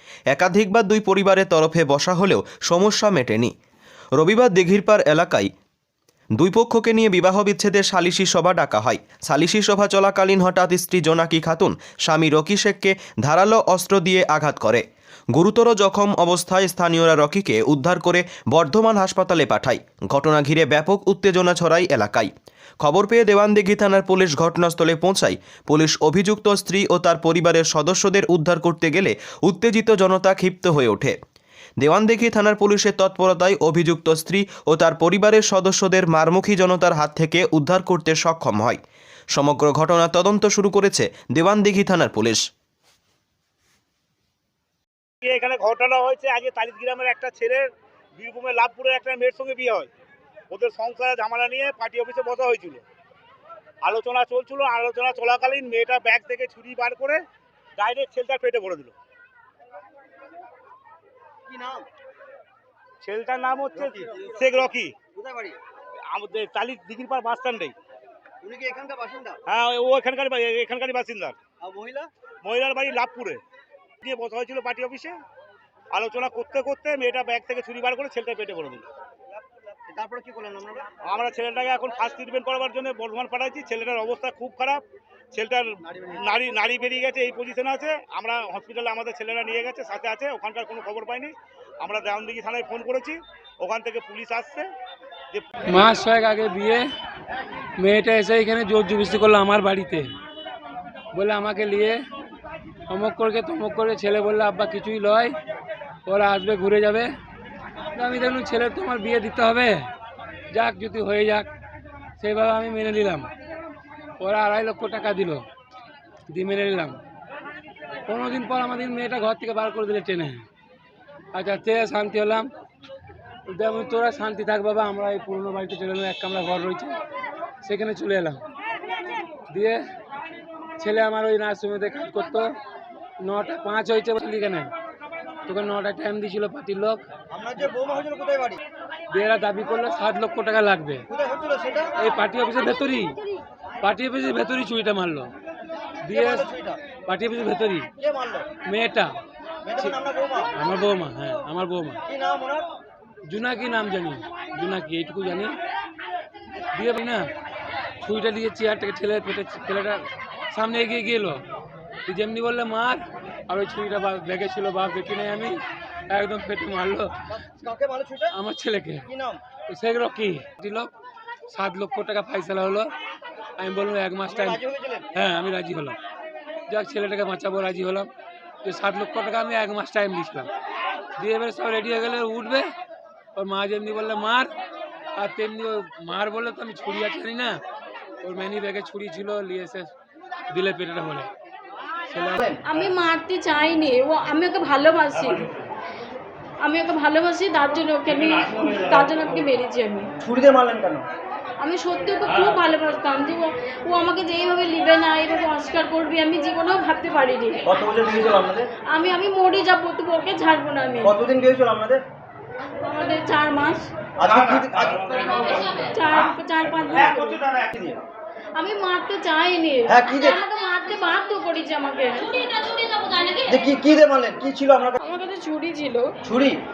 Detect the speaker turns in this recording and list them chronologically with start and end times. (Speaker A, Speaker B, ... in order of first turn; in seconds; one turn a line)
Speaker A: 0.3-3.5
Speaker A: 4.2-5.5
Speaker A: 6.4-31.1
Speaker A: 31.8-38.8
Speaker A: 39.3-42.4
Speaker B: 45.2-49.9
Speaker B: 50.5-52.8
Speaker B: 53.8-57.2
Speaker B: 57.8-59.0
Speaker C: 61.5-61.9
Speaker B: 63.0-64.9
Speaker C: 63.8-65.6
Speaker B: 66.1-67.7
Speaker C: 68.4-69.4
Speaker B: 69.5-71.4
Speaker C: 71.6-72.1
Speaker B: 72.4-73.4
Speaker B: 74.0-75.2
Speaker B: 75.9-78.9
Speaker C: 79.3-80.9
Speaker B: 81.0-94.7
Speaker C: 85.9-86.2
Speaker D: 95.7-96.8
Speaker D: 97.8-100.1
Speaker D: 101.1-102.0
Speaker D: 102.9-105.3
Speaker D: 106.1-107.1
Speaker D: 108.0-109.9
Speaker D: 110.5-111.5
Speaker D: 112.2-113.3
Speaker D: 114.2-115.5
Speaker D: 116.3-117.0
Speaker D: 118.1-120.5
Speaker D: 121.3-122.5
Speaker D: 123.5-127.0
Speaker D: 127.6-128.4
Speaker D: 129.5-129.8
Speaker D: 130.8-132.5
Speaker D: 133.2-134.7
Speaker D: 135.5-137.0
Speaker C: 137.3-138.6
Speaker D: 139.1-141.1
Speaker C: 141.1-141.9
Speaker D: 142.0-143.2
Speaker D: 143.8-145.3
Speaker D: 146.1-146.5
Speaker C: 146.1-146.8
Speaker D: 147.1-147.9
Speaker C: 148.0-148.5
Speaker D: 148.7-149.2
Speaker C: 149.7-150.5
Speaker D: 150.5-152.0
Speaker C: 152.1-152.7
Speaker D: 153.3-155.6
Speaker D: 156.8-157.3
Speaker D: 158.0-161.4
Speaker D: 162.1-165.6
Speaker D: 166.1-167.1
Speaker C: 167.3-168.3
Speaker D: 168.3-169.1
Speaker C: 169.1-169.4
Speaker D: 169.7-170.9
Speaker D: 171.5-172.9
Speaker D: 173.6-174.6
Speaker C: 174.3-175.1
Speaker D: 175.1-176.0
Speaker D: 176.7-178.1
Speaker D: 178.6-180.5
Speaker D: 181.2-182.7
Speaker D: 183.3-184.5
Speaker D: 185.2-187.6
Speaker D: 188.2-189.9
Speaker D: 190.5-191.3
Speaker D: 192.1-192.4
Speaker E: 192.6-195.5
Speaker E: 196.6-200.1
Speaker C: 200.2-201.1
Speaker E: 201.6-207.7
Speaker C: 207.7-208.7
Speaker E: 208.9-211.1
Speaker C: 211.0-212.0
Speaker E: 212.8-213.9
Speaker C: 214.2-215.3
Speaker B: 214.3-217.6
Speaker E: 215.8-217.1
Speaker C: 217.0-218.1
Speaker E: 218.6-223.4
Speaker C: 219.9-220.4
Speaker C: 223.5-225.0
Speaker E: 225.0-226.2
Speaker C: 226.2-226.6